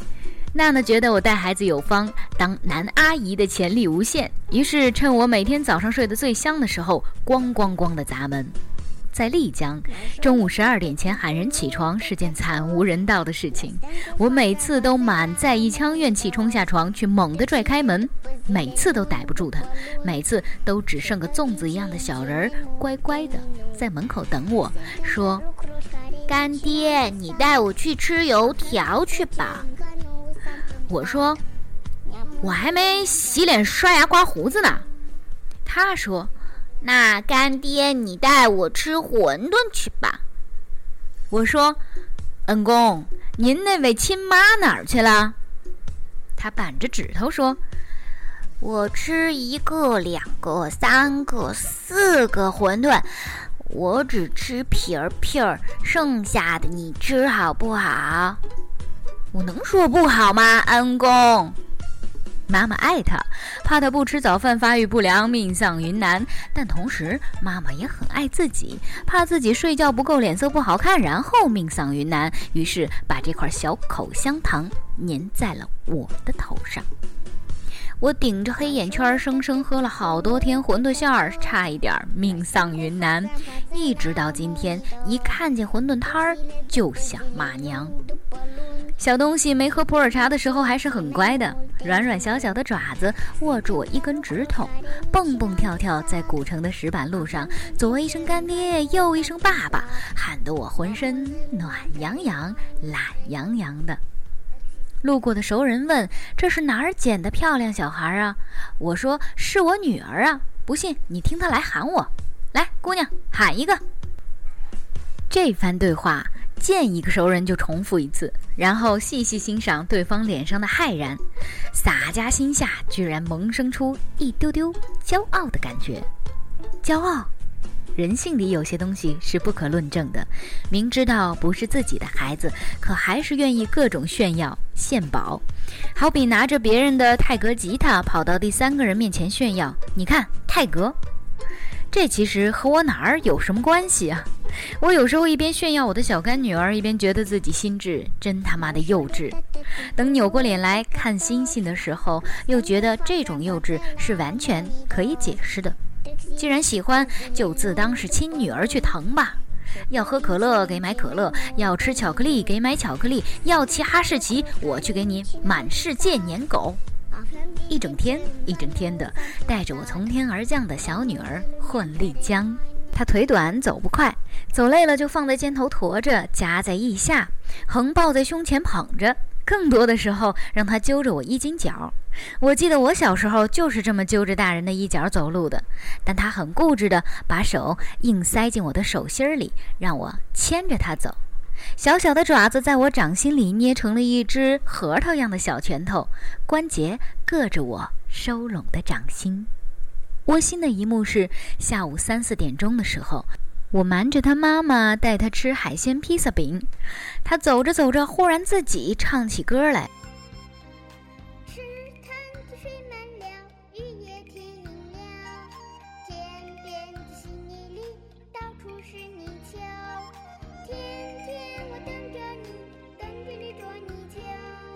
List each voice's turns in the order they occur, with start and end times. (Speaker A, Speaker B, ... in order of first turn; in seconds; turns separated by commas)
Speaker A: 0.5-8.5, Speaker A: 9.1-25.5, Speaker B: 26.3-29.6, Speaker A: 30.9-31.4, Speaker A: 32.4-34.9, Speaker A: 35.6-36.3, Speaker B: 36.8-40.2, Speaker A: 41.3-41.8, Speaker A: 42.5-45.4, Speaker A: 46.4-47.6, Speaker B: 48.6-58.4, Speaker A: 59.3-61.4, Speaker B: 59.6-61.5, Speaker A: 62.5-76.9, Speaker A: 78.0-88.0, Speaker A: 89.0-104.0, Speaker A: 105.0-113.8, Speaker A: 115.3-126.1, Speaker A: 126.8-127.3, Speaker A: 128.0-135.4, Speaker A: 135.9-141.0, Speaker A: 141.9-149.4, Speaker A: 149.9-155.8, Speaker A: 156.3-166.8, Speaker A: 167.7-191.2, Speaker A: 191.8-199.5, Speaker A: 200.3-206.7, Speaker A: 207.2-209.9, Speaker B: 211.8-212.6, Speaker B: 213.2-213.5, Speaker B: 218.7-219.3, Speaker B: 221.0-222.5, Speaker B: 223.3-224.3